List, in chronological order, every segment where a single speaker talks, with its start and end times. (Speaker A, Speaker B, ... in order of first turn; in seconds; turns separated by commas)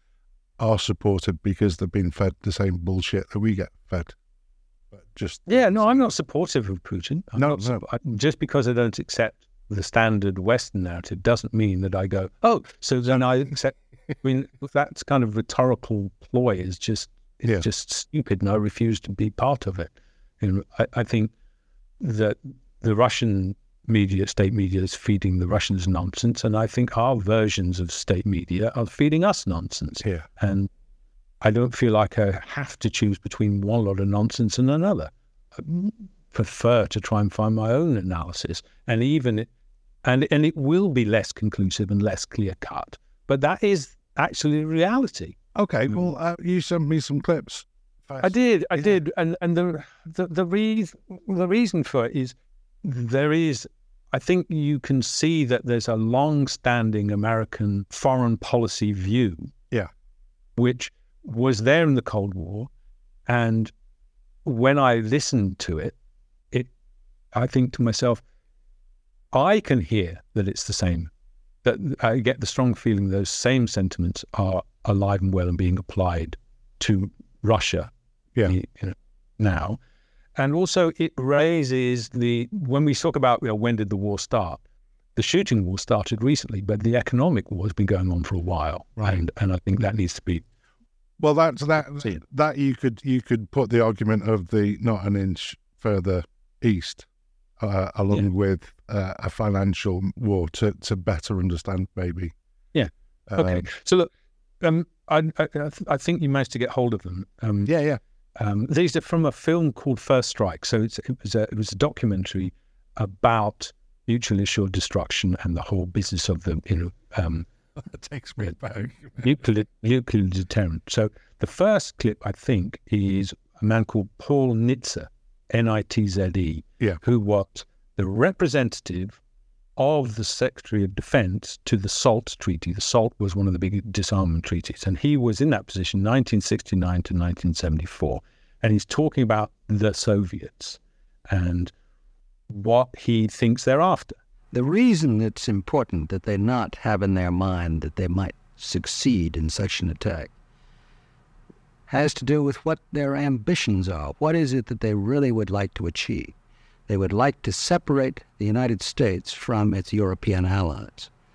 Speaker A: 0.6-4.2, Speaker A: 4.9-6.1, Speaker B: 5.5-21.3, Speaker A: 7.4-7.8, Speaker B: 22.0-30.7, Speaker B: 31.4-39.5, Speaker B: 40.0-45.4, Speaker A: 45.5-49.0, Speaker B: 48.2-59.5, Speaker B: 60.6-62.7, Speaker B: 63.3-63.7, Speaker B: 64.5-66.0, Speaker B: 67.3-68.2, Speaker B: 69.3-71.1, Speaker B: 71.6-77.9, Speaker B: 78.5-79.8, Speaker B: 80.4-84.6, Speaker B: 85.2-90.4, Speaker A: 91.2-97.1, Speaker A: 97.6-102.3, Speaker B: 102.7-107.7, Speaker A: 103.3-103.7, Speaker A: 107.7-108.0, Speaker B: 108.4-117.5, Speaker A: 117.8-119.3, Speaker B: 119.2-129.2, Speaker B: 129.8-141.7, Speaker B: 142.5-144.2, Speaker C: 144.5-150.3, Speaker C: 151.9-156.3, Speaker C: 156.9-161.1